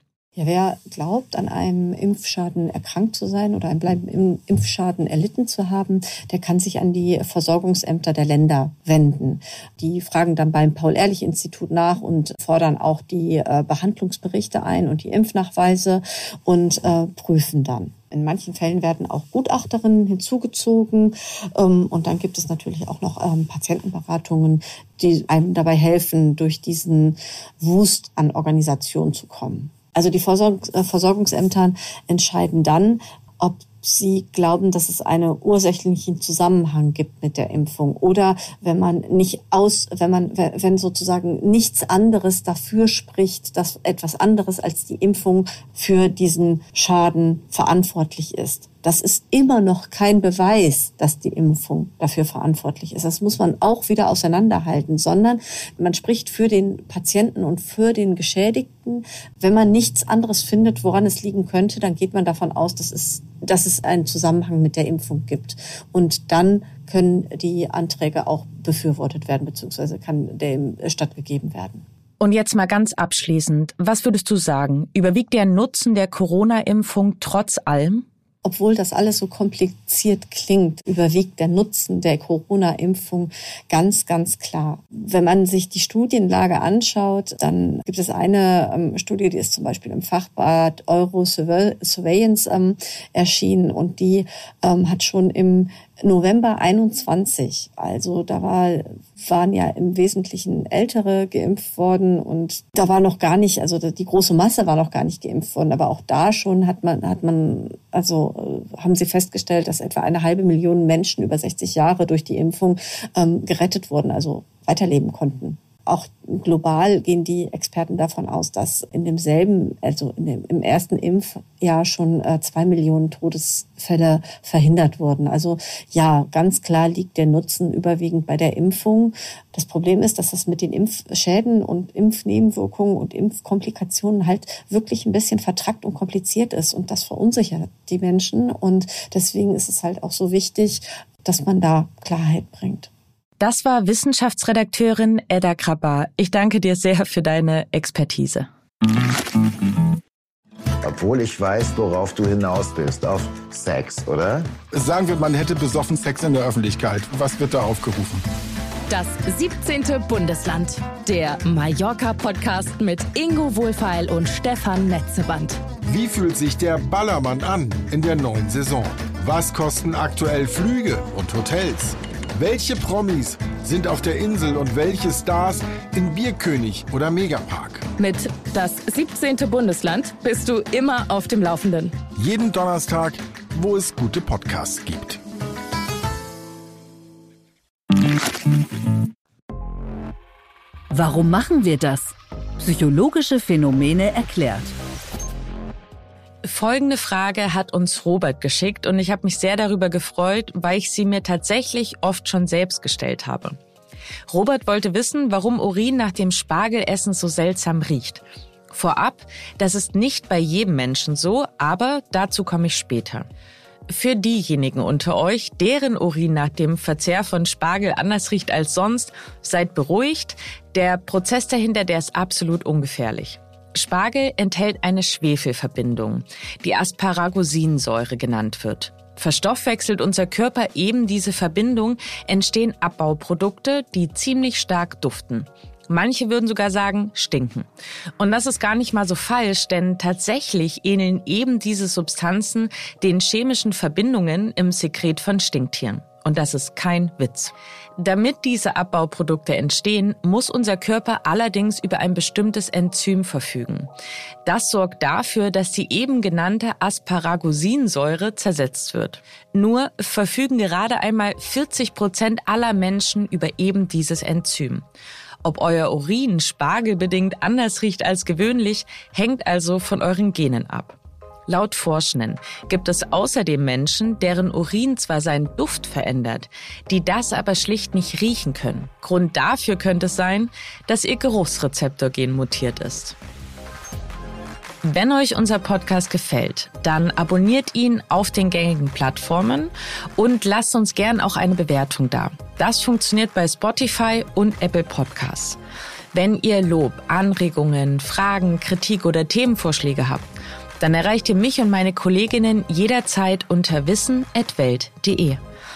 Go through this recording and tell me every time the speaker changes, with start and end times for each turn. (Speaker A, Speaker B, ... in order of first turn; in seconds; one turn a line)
Speaker A: 0.3-71.8
Speaker B: 72.2-78.0
Speaker A: 78.4-142.9
Speaker B: 143.4-148.5
Speaker C: 150.8-154.5
Speaker D: 154.7-158.2
Speaker E: 158.9-165.6
Speaker D: 165.9-177.8
Speaker E: 178.0-181.9
Speaker D: 182.2-185.2
Speaker F: 191.0-194.7
Speaker B: 196.4-203.6
Speaker B: 204.3-213.2
Speaker B: 213.9-237.7
Speaker B: 238.2-253.9
Speaker B: 254.4-264.9
Speaker B: 265.4-283.1
Speaker B: 284.8-295.6
Speaker B: 296.1-300.2
Speaker B: 300.8-305.4